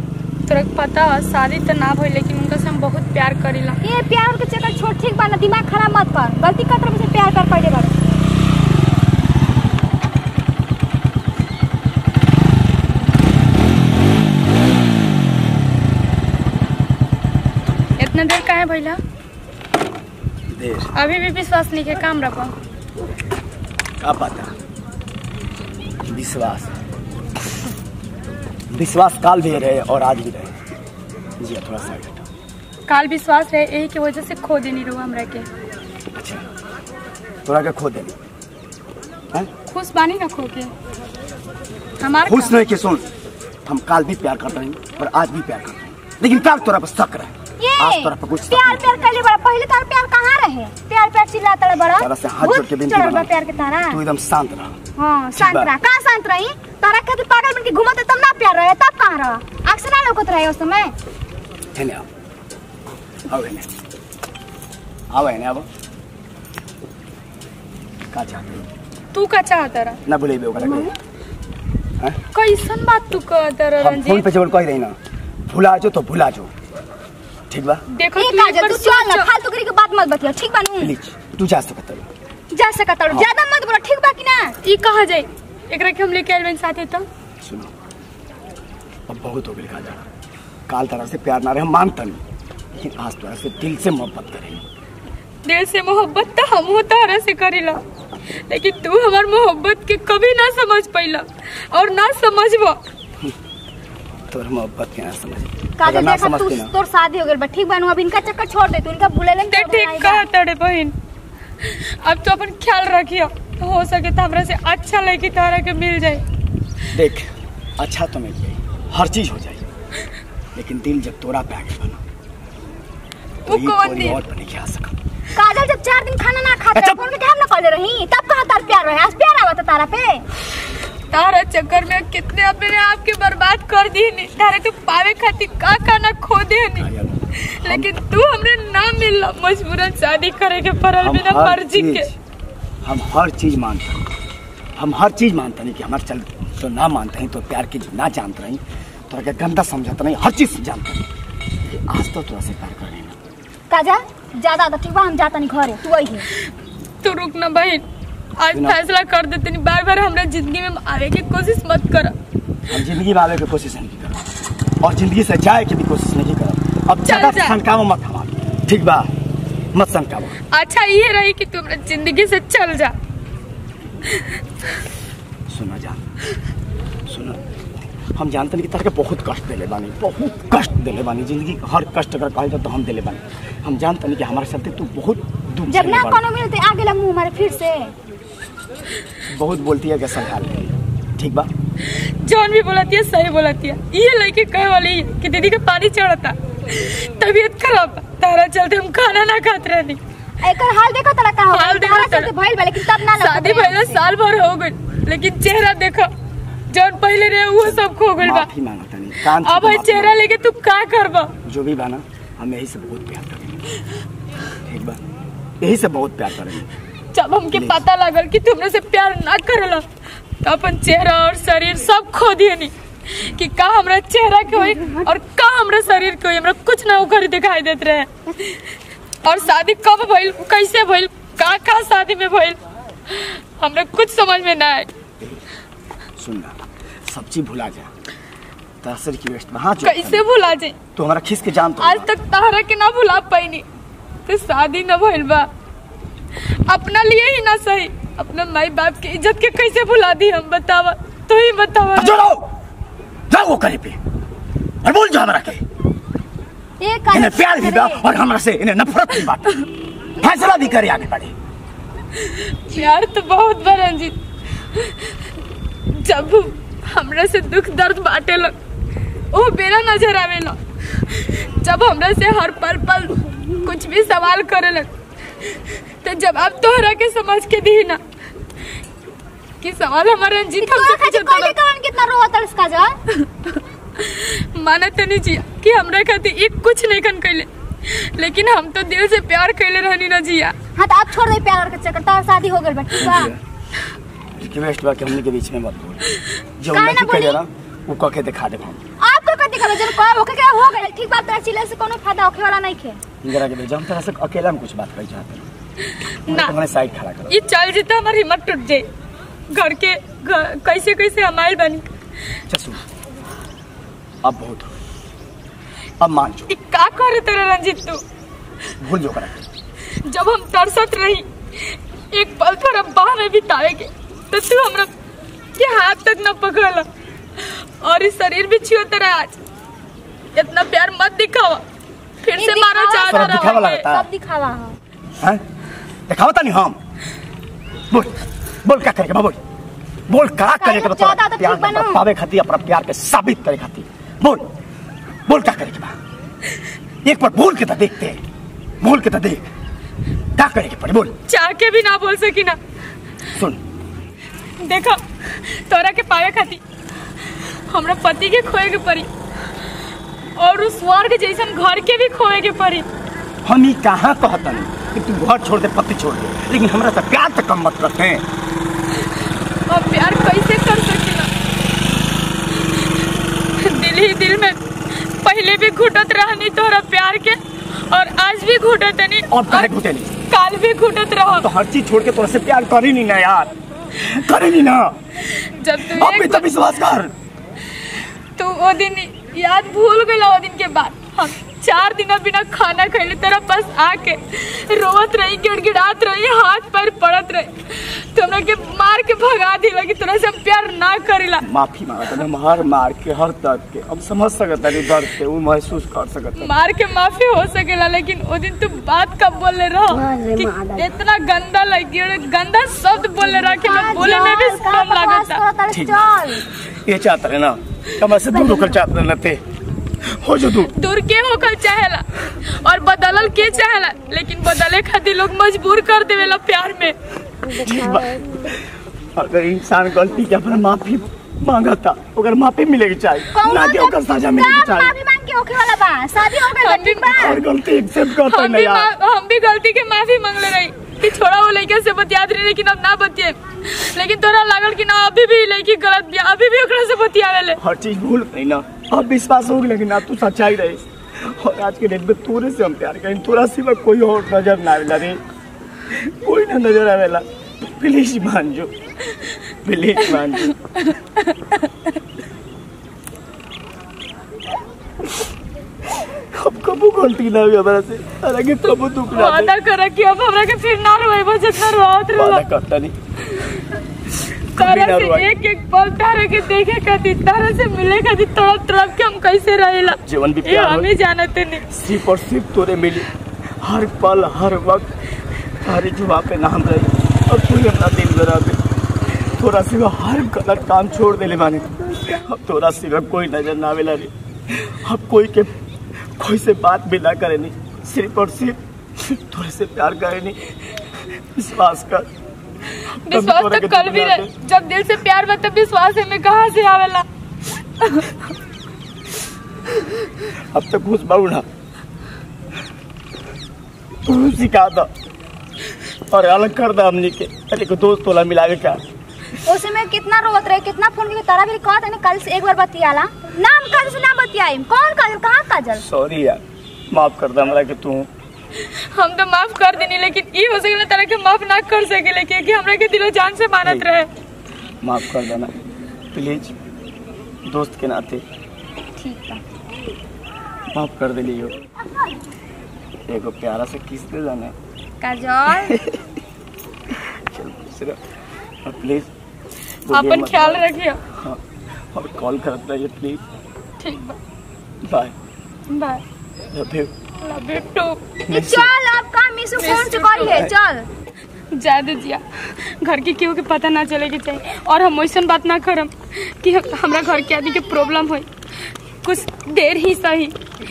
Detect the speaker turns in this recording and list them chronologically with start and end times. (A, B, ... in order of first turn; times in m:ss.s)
0:00.5-0:03.8 A
0:03.8-0:08.0 B
0:18.0-0:19.0 A
0:20.5-0:20.9 C
0:20.9-0:22.6 A
0:24.0-0:24.5 C
0:26.1-0:26.7 C
0:28.7-0:30.5 C
0:31.4-0:32.2 C
0:32.9-0:35.5 A
0:36.1-0:36.4 C
0:37.5-0:38.2 C
0:39.7-0:40.7 A
0:42.0-0:42.6 A
0:42.2-0:43.1 C
0:43.6-0:49.0 C
0:47.6-0:54.0 B
0:52.0-0:53.3 C
0:53.9-0:54.8 C
0:55.0-1:00.9 B
0:55.4-0:55.7 C
1:01.7-1:02.1 C
1:03.3-1:03.7 C
1:05.1-1:05.7 C
1:08.1-1:08.7 C
1:09.1-1:10.0 A
1:10.1-1:10.9 C
1:10.6-1:11.0 B
1:12.3-1:14.3 A
1:13.8-1:16.5 C
1:17.5-1:17.8 C
1:17.9-1:19.3 A
1:18.2-1:21.0 B
1:20.8-1:22.1 C
1:22.5-1:24.6 B
1:24.6-1:27.1 A
1:27.4-1:27.7 C
1:29.1-1:30.0 C
1:30.7-1:32.2 C
1:32.8-1:34.6 C
1:35.4-1:37.8 A
1:38.5-1:42.8 A
1:44.3-1:46.7 C
1:45.8-1:50.3 B
1:49.5-1:51.0 A
1:51.6-1:56.2 A
1:56.9-1:59.6 C
2:00.6-2:02.0 C
2:03.4-2:04.2 A
2:03.5-2:04.9 C
2:05.3-2:10.3 B
2:06.7-2:07.0 C
2:11.1-2:22.1 A
2:16.8-2:17.9 C
2:21.0-2:22.2 C
2:22.8-2:24.1 C
2:24.8-2:31.1 C
2:31.7-2:33.2 C
2:33.7-2:36.3 B
2:37.0-2:37.8 A
2:38.4-2:42.2 A
2:38.5-2:38.8 C
2:42.7-2:44.2 C
2:44.8-2:49.1 C
2:47.0-2:47.6 A
2:49.7-2:50.4 C
2:50.5-2:53.0 A
2:55.5-2:56.0 C
2:57.1-2:57.4 C
2:58.1-3:06.2 C
3:05.7-3:07.9 B
3:09.3-3:11.5 C
3:11.9-3:20.0 A
3:20.4-3:24.0 B
3:21.5-3:22.3 A
3:23.0-3:26.1 A
3:26.7-3:28.5 A
3:27.6-3:30.2 C
3:29.3-3:31.3 A
3:31.4-3:33.7 C
3:34.6-3:35.0 C
3:35.6-3:36.7 C
3:37.1-3:39.8 A
3:37.5-3:37.8 C
3:40.4-3:48.7 A
3:49.2-3:54.9 A
3:56.2-3:57.9 C
3:58.8-4:00.2 C
3:59.8-4:00.8 A
4:01.0-4:02.1 C
4:01.8-4:03.7 A
4:04.3-4:05.5 A
4:06.4-4:12.2 A
4:12.0-4:12.5 C
4:13.3-4:14.0 C
4:14.8-4:15.6 C
4:16.8-4:18.1 B
4:17.1-4:19.6 C
4:20.2-4:21.3 C
4:22.2-4:24.2 A
4:24.7-4:25.2 A
4:25.9-4:28.6 A
4:29.3-4:34.9 A
4:36.0-4:38.0 A
4:39.6-4:41.6 A
4:40.6-4:43.0 B
4:43.1-4:50.6 A
4:50.8-4:53.4 B
4:53.0-4:53.4 C
4:54.4-4:58.8 C
4:56.7-4:57.4 B
4:59.0-5:03.0 B
5:03.2-5:05.5 C
5:06.0-5:06.6 A
5:06.3-5:07.4 C
5:07.3-5:08.9 A
5:09.5-5:11.9 A
5:12.5-5:12.8 C
5:14.2-5:14.7 C
5:16.0-5:16.5 C
5:16.5-5:18.0 A
5:18.8-5:19.5 C
5:20.0-5:24.9 A
5:25.6-5:29.4 A
5:30.4-5:31.6 A
5:32.2-5:33.9 A
5:32.4-5:34.8 B
5:33.1-5:34.1 C
5:36.1-5:36.8 C
5:37.9-5:39.4 C
5:40.1-5:44.5 C
5:40.5-5:42.0 B
5:45.3-5:46.0 C
5:47.0-5:48.2 C
5:48.8-5:49.5 C
5:50.4-5:51.2 C
5:51.3-5:52.6 A
5:53.3-5:53.6 C
5:54.6-5:56.6 A
5:57.3-5:59.1 A
6:00.4-6:02.9 A
6:03.4-6:08.3 C
6:09.7-6:11.3 A
6:13.6-6:19.7 A
6:19.3-6:20.2 C
6:20.3-6:21.5 A
6:21.3-6:25.0 C
6:25.3-6:26.5 A
6:25.8-6:27.1 C
6:28.4-6:41.5 A
6:41.4-6:46.5 C
6:46.4-6:55.4 A
6:50.0-6:50.8 B
6:53.2-6:56.5 B
6:55.7-6:59.4 C
6:58.3-6:58.8 B
7:00.0-7:00.7 C
7:00.8-7:07.0 A
7:07.6-7:08.6 C
7:09.2-7:14.9 C
7:13.3-7:17.4 B
7:16.3-7:17.4 A
7:17.1-7:18.9 C
7:18.2-7:27.6 A
7:27.6-7:35.2 C
7:35.9-7:38.7 C
7:39.6-7:40.6 C
7:40.1-7:41.7 A
7:45.9-7:49.5 C
7:48.6-7:52.4 A
7:52.1-7:53.0 C
7:53.3-7:53.6 A
7:54.5-8:01.7 A
7:54.6-7:55.3 C
8:00.0-8:00.9 C
8:01.7-8:03.1 C
8:03.6-8:04.9 C
8:05.6-8:15.5 C
8:16.2-8:20.5 C
8:21.1-8:22.1 C
8:22.8-8:27.1 A
8:23.0-8:24.3 C
8:27.8-8:28.3 A
8:30.3-8:31.5 C
8:34.0-8:34.9 C
8:36.1-8:38.8 C
8:39.4-8:45.8 B
8:45.8-8:48.1 C
8:48.7-8:54.1 A
8:53.6-8:53.9 C
8:54.8-8:55.5 C
8:56.1-8:56.5 C
8:57.5-8:58.2 C
8:59.0-8:59.4 B
9:00.7-9:01.5 C
9:03.1-9:04.5 C
9:05.0-9:05.8 B
9:05.7-9:06.0 C
9:06.9-9:08.0 C
9:08.6-9:09.1 C
9:09.9-9:11.4 C
9:09.9-9:11.0 A
9:11.9-9:13.2 C
9:13.8-9:14.2 A
9:14.8-9:15.2 C
9:15.7-9:16.0 A
9:16.5-9:16.9 C
9:17.2-9:18.0 A
9:18.3-9:18.7 C
9:18.3-9:20.9 B
9:19.6-9:20.5 A
9:20.3-9:20.5 C
9:21.5-9:28.3 A
9:29.0-9:30.4 A